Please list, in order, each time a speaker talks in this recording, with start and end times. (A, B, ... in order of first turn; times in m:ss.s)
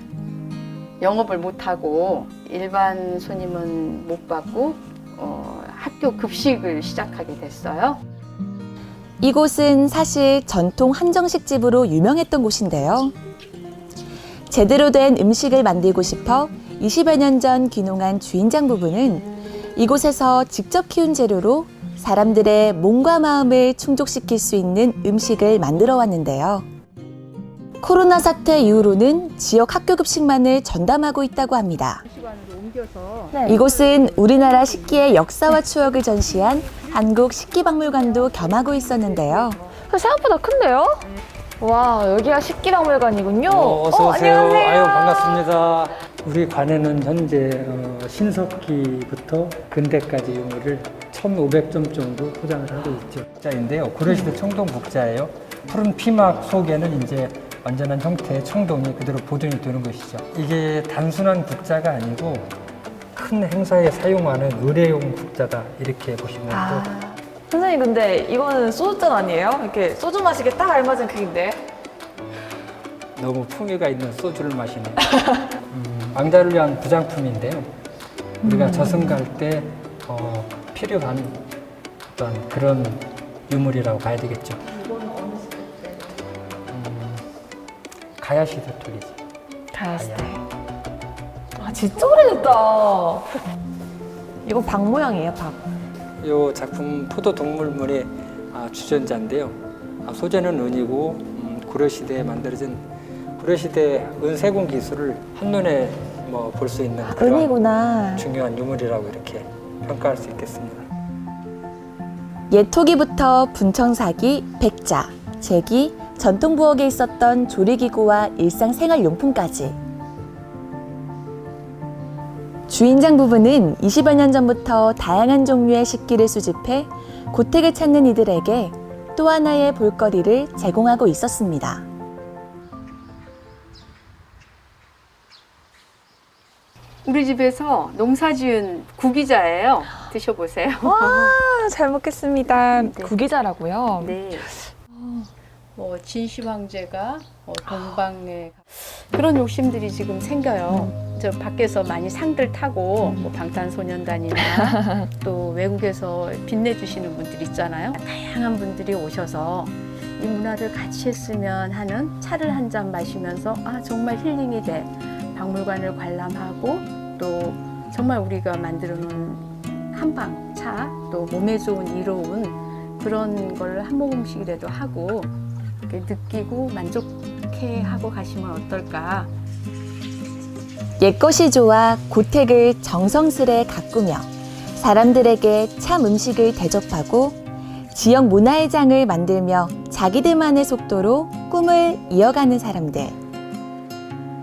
0:01.0-0:08.0 A
0:09.2-0:13.2 B
0:14.5-0:26.7 B
0:27.8-0:32.0 B
0:32.1-0:35.0 A
0:33.3-0:33.6 C
0:33.4-0:39.6 B
0:38.5-0:39.3 A
0:39.9-0:41.1 C
0:41.6-0:45.4 C
0:43.5-1:02.5 D
1:03.1-1:06.9 D
1:06.5-1:11.6 C
1:13.2-1:15.0 D
1:15.7-1:17.7 D
1:18.4-1:19.2 C
1:18.4-1:21.5 D
1:22.1-1:24.6 D
1:24.6-1:26.2 C
1:26.7-1:27.2 D
1:28.2-1:29.2 D
1:29.7-1:30.4 C
1:30.0-1:30.4 D
1:31.6-1:33.4 C
1:34.4-1:35.7 C
1:36.2-1:42.8 D
1:43.4-1:47.6 D
1:47.0-1:48.2 C
1:48.1-1:50.9 D
1:52.5-1:59.8 B
2:02.7-2:11.8 B
2:17.0-2:21.4 A
2:20.8-2:25.3 C
2:22.7-2:23.1 A
2:24.0-2:24.5 A
2:25.8-2:55.3 A
2:34.7-2:35.0 C
2:55.9-2:59.3 A
3:01.0-3:07.4 B
3:07.9-3:13.2 B